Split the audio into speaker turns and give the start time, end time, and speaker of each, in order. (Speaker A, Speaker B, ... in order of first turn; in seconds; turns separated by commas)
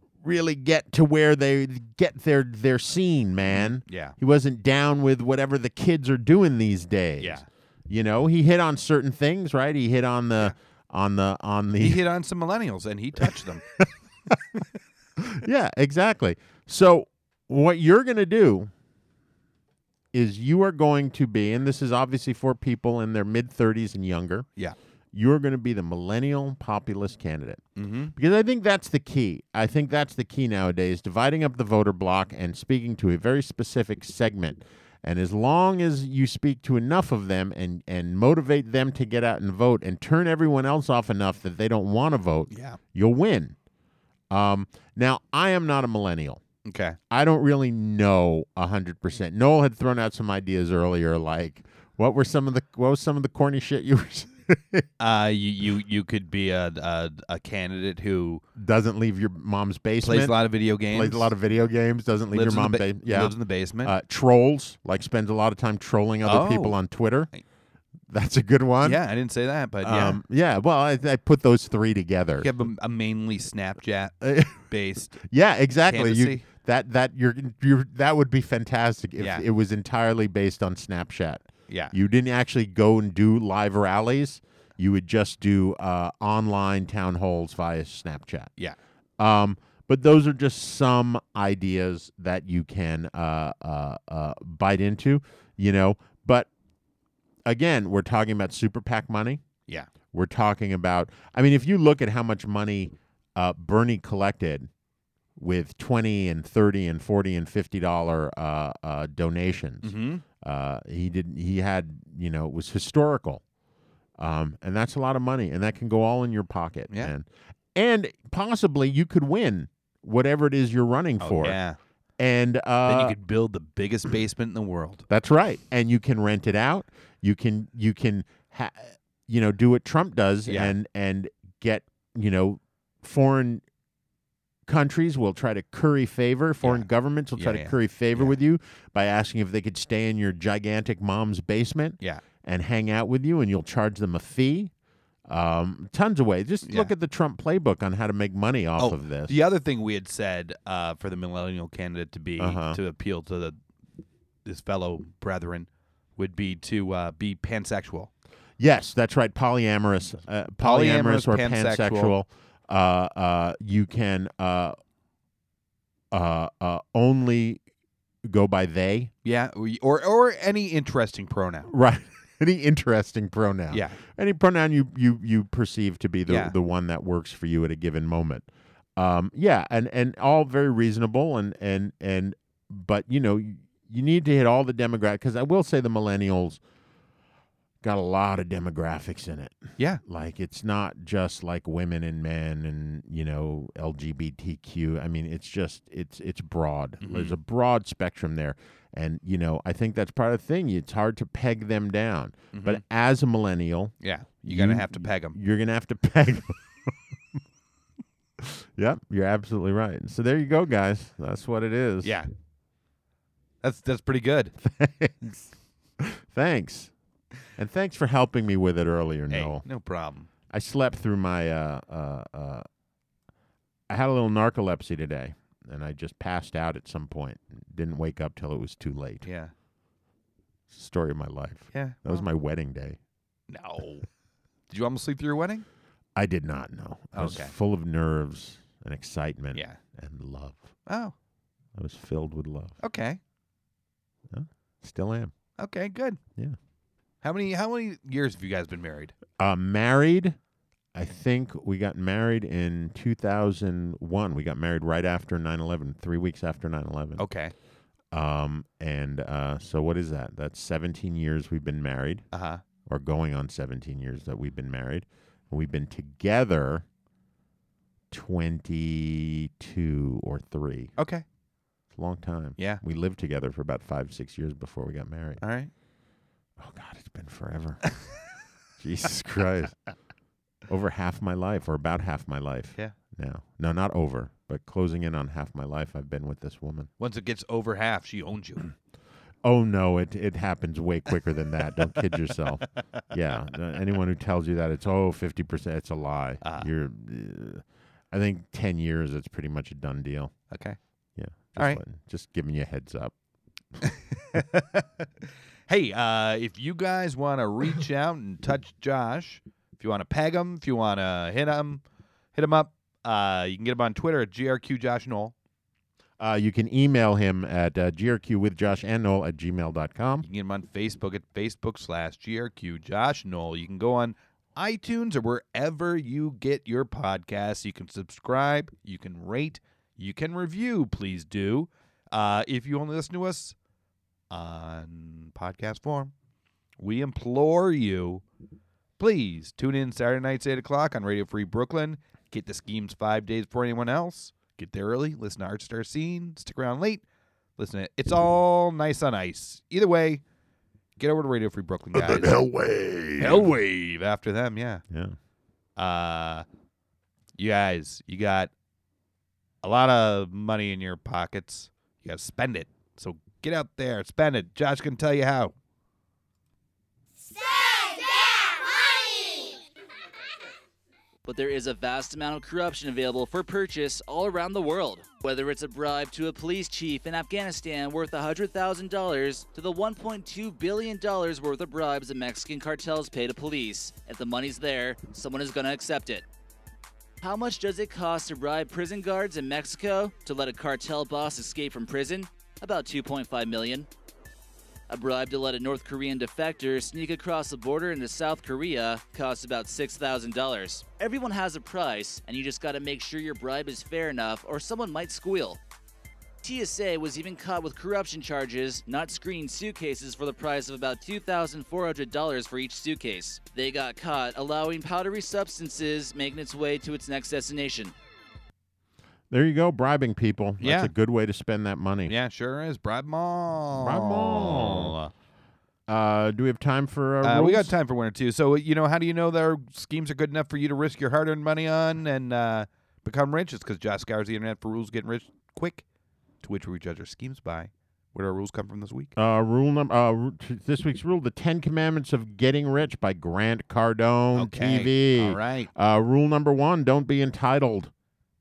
Speaker A: 0.2-12.0, Speaker B: 3.5-4.1, Speaker B: 7.2-7.5, Speaker B: 11.8-13.6, Speaker A: 13.2-14.6, Speaker A: 15.2-18.7, Speaker A: 20.1-24.5, Speaker A: 25.1-27.6, Speaker B: 27.8-28.1, Speaker A: 28.1-43.6, Speaker B: 42.5-42.8, Speaker A: 44.3-46.4, Speaker B: 46.6-47.0, Speaker A: 47.1-54.9, Speaker B: 55.0-58.4, Speaker A: 58.5-67.3, Speaker B: 60.0-61.3, Speaker B: 62.3-63.9, Speaker B: 66.2-66.8, Speaker A: 68.1-69.0, Speaker B: 68.8-70.2, Speaker A: 69.8-72.5, Speaker B: 72.4-75.2, Speaker A: 74.2-88.5, Speaker B: 75.9-76.4, Speaker B: 79.2-79.5, Speaker B: 81.7-81.9, Speaker A: 89.2-96.5, Speaker A: 97.4-99.4, Speaker A: 100.1-104.7, Speaker A: 105.4-113.4, Speaker B: 109.8-110.2, Speaker A: 114.2-121.6, Speaker B: 121.2-121.8, Speaker A: 122.2-123.1, Speaker B: 122.8-125.0, Speaker A: 125.1-133.6, Speaker B: 130.4-130.7, Speaker A: 134.7-144.7, Speaker B: 136.6-138.3, Speaker A: 145.3-149.4, Speaker B: 146.6-146.9, Speaker B: 148.8-153.6, Speaker A: 152.4-152.8, Speaker B: 154.4-158.1, Speaker A: 158.6-164.8, Speaker B: 160.6-162.2, Speaker A: 166.1-167.6, Speaker A: 168.2-169.1, Speaker B: 169.2-171.7, Speaker A: 171.7-186.6, Speaker B: 173.7-174.0, Speaker B: 176.3-176.5, Speaker A: 187.8-206.9, Speaker B: 197.0-197.3, Speaker B: 202.5-202.8, Speaker B: 204.0-205.4, Speaker A: 208.4-212.2, Speaker B: 212.0-212.3, Speaker B: 213.6-214.5, Speaker A: 214.6-216.9, Speaker A: 217.5-219.6, Speaker B: 219.3-220.3, Speaker A: 220.5-222.6, Speaker A: 223.9-229.2, Speaker B: 229.2-229.5, Speaker A: 230.7-233.0, Speaker B: 231.7-232.2, Speaker B: 233.5-234.1, Speaker B: 234.7-235.7, Speaker A: 236.2-240.7, Speaker B: 237.1-237.5, Speaker B: 239.5-239.8, Speaker B: 240.8-241.1, Speaker A: 241.8-242.7, Speaker B: 242.8-243.2, Speaker A: 244.3-245.3, Speaker B: 245.6-246.2, Speaker B: 247.2-249.1, Speaker A: 249.4-250.4, Speaker A: 250.9-257.2, Speaker B: 257.2-257.5, Speaker A: 258.1-262.2, Speaker B: 262.3-262.6, Speaker A: 262.9-266.9, Speaker A: 268.1-270.9, Speaker B: 271.0-271.2, Speaker A: 271.9-275.4, Speaker B: 275.4-275.7, Speaker A: 276.6-277.8, Speaker A: 278.8-279.8, Speaker A: 280.7-286.9, Speaker B: 287.0-288.7, Speaker A: 289.4-300.3, Speaker B: 296.4-296.7, Speaker B: 300.5-300.8, Speaker A: 301.1-303.1, Speaker B: 301.6-301.8, Speaker B: 303.8-311.8, Speaker B: 312.3-315.3, Speaker A: 316.2-320.2, Speaker B: 320.2-333.5, Speaker B: 334.3-336.1, Speaker B: 336.8-338.2, Speaker B: 339.0-347.0, Speaker B: 347.6-350.2, Speaker B: 351.0-352.4, Speaker A: 351.9-353.5, Speaker B: 353.2-354.8, Speaker A: 354.9-355.1, Speaker B: 355.8-356.4, Speaker B: 357.4-358.5, Speaker B: 359.6-365.5, Speaker C: 371.2-386.2, Speaker C: 387.2-393.9, Speaker C: 394.9-405.6, Speaker C: 406.4-417.9, Speaker A: 419.3-422.1, Speaker B: 420.6-420.9, Speaker B: 422.1-425.1, Speaker A: 423.8-425.0, Speaker A: 425.9-427.7, Speaker B: 427.2-435.8, Speaker B: 436.4-439.1, Speaker A: 439.1-447.9, Speaker B: 444.3-445.7